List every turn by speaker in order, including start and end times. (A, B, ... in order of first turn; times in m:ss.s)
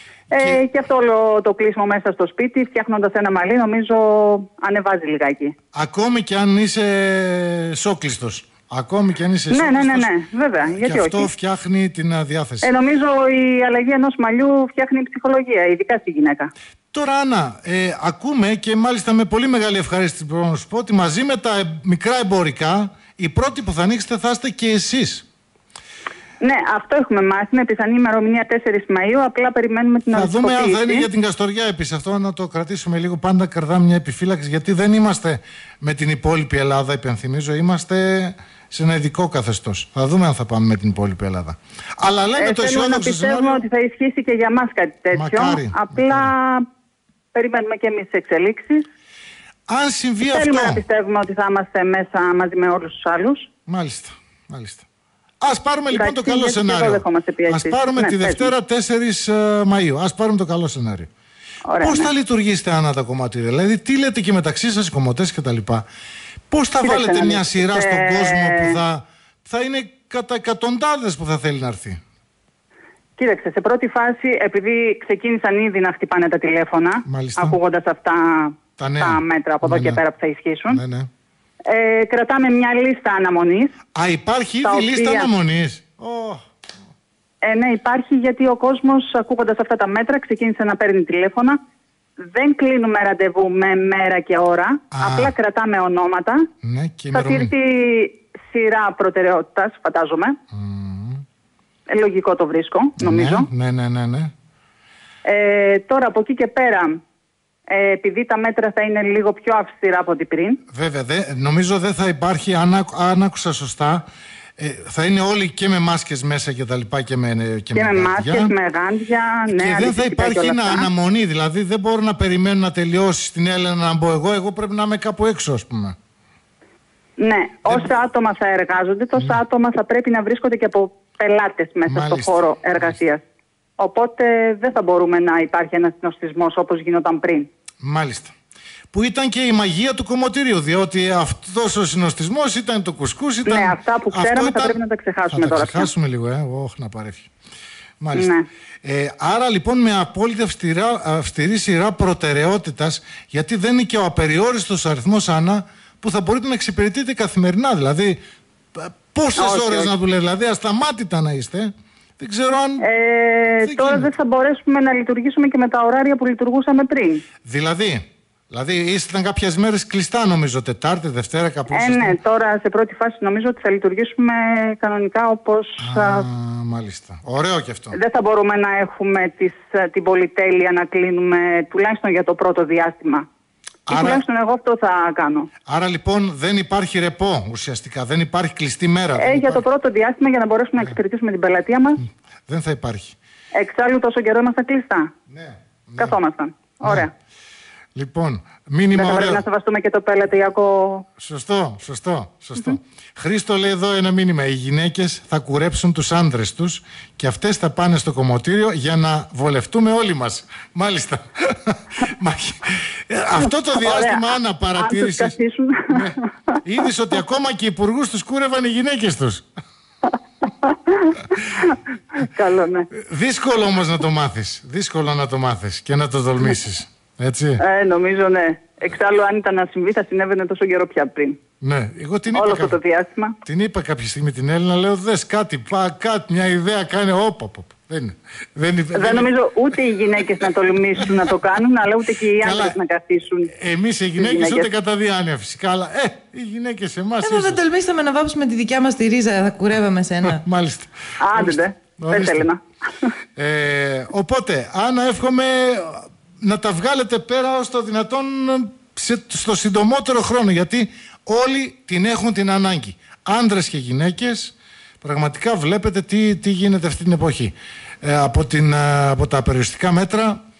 0:00.3-0:05.6 A
0:00.3-0:00.6 B
0:05.7-0:10.1 B
0:09.5-0:11.3 A
0:10.6-0:12.7 B
0:12.6-0:16.5 A
0:16.9-0:25.2 B
0:26.4-0:31.1 A
0:30.1-0:43.6 B
0:42.4-0:46.6 A
0:45.1-0:46.3 B
0:47.3-0:48.9 A
0:49.7-0:50.8 B
0:50.3-0:53.5 A
0:53.7-0:54.8 B
0:55.4-1:01.1 B
0:55.9-0:58.5 A
1:01.6-1:02.1 A
1:01.8-1:05.8 B
1:06.5-1:12.0 B
1:06.8-1:08.8 A
1:13.2-1:20.8 A
1:17.1-1:17.6 B
1:18.8-1:20.0 B
1:20.7-1:21.1 B
1:21.7-1:23.8 A
1:24.0-1:26.4 B
1:24.6-1:25.3 A
1:27.4-1:31.6 A
1:32.2-1:36.5 A
1:34.9-1:35.3 B
1:36.6-1:37.5 B
1:37.1-1:40.4 A
1:40.5-1:41.2 B
1:41.9-1:43.5 A
1:43.0-1:44.3 B
1:45.2-1:47.0 A
1:47.7-1:50.6 A
1:50.7-1:54.1 B
1:54.6-1:58.5 B
1:57.7-2:00.9 A
1:59.5-2:05.9 B
2:07.2-2:13.2 A
2:11.9-2:13.0 B
2:13.8-2:17.5 A
2:17.8-2:18.3 B
2:18.9-2:24.8 B
2:23.4-2:25.9 A
2:25.3-2:27.3 B
2:28.0-2:38.2 B
2:28.1-2:28.5 A
2:38.8-2:42.9 B
2:39.4-2:39.9 A
2:42.8-2:47.2 A
2:43.6-2:44.1 B
2:47.4-2:52.2 B
2:51.7-2:56.3 A
2:55.8-2:58.0 B
2:57.9-3:03.2 A
3:03.9-3:04.2 B
3:03.9-3:05.5 A
3:05.7-3:09.6 B
3:09.2-3:12.0 A
3:12.5-3:13.2 B
3:13.5-3:15.1 A
3:15.3-3:16.2 B
3:16.0-3:17.1 A
3:16.8-3:17.1 B
3:17.9-3:19.4 B
3:18.9-3:21.1 A
3:21.2-3:35.4 B
3:33.5-3:36.3 A
3:35.9-3:39.5 B
3:40.6-3:42.9 A
3:43.0-3:47.6 B
3:47.6-3:51.4 A
3:51.6-3:52.8 B
3:52.3-3:53.4 A
3:53.4-3:59.3 B
3:58.9-4:03.5 A
4:02.4-4:02.8 B
4:03.5-4:07.6 B
4:04.2-4:04.7 A
4:07.2-4:10.4 C
4:10.2-4:12.5 B
4:11.2-4:13.1 A
4:13.4-4:30.4 B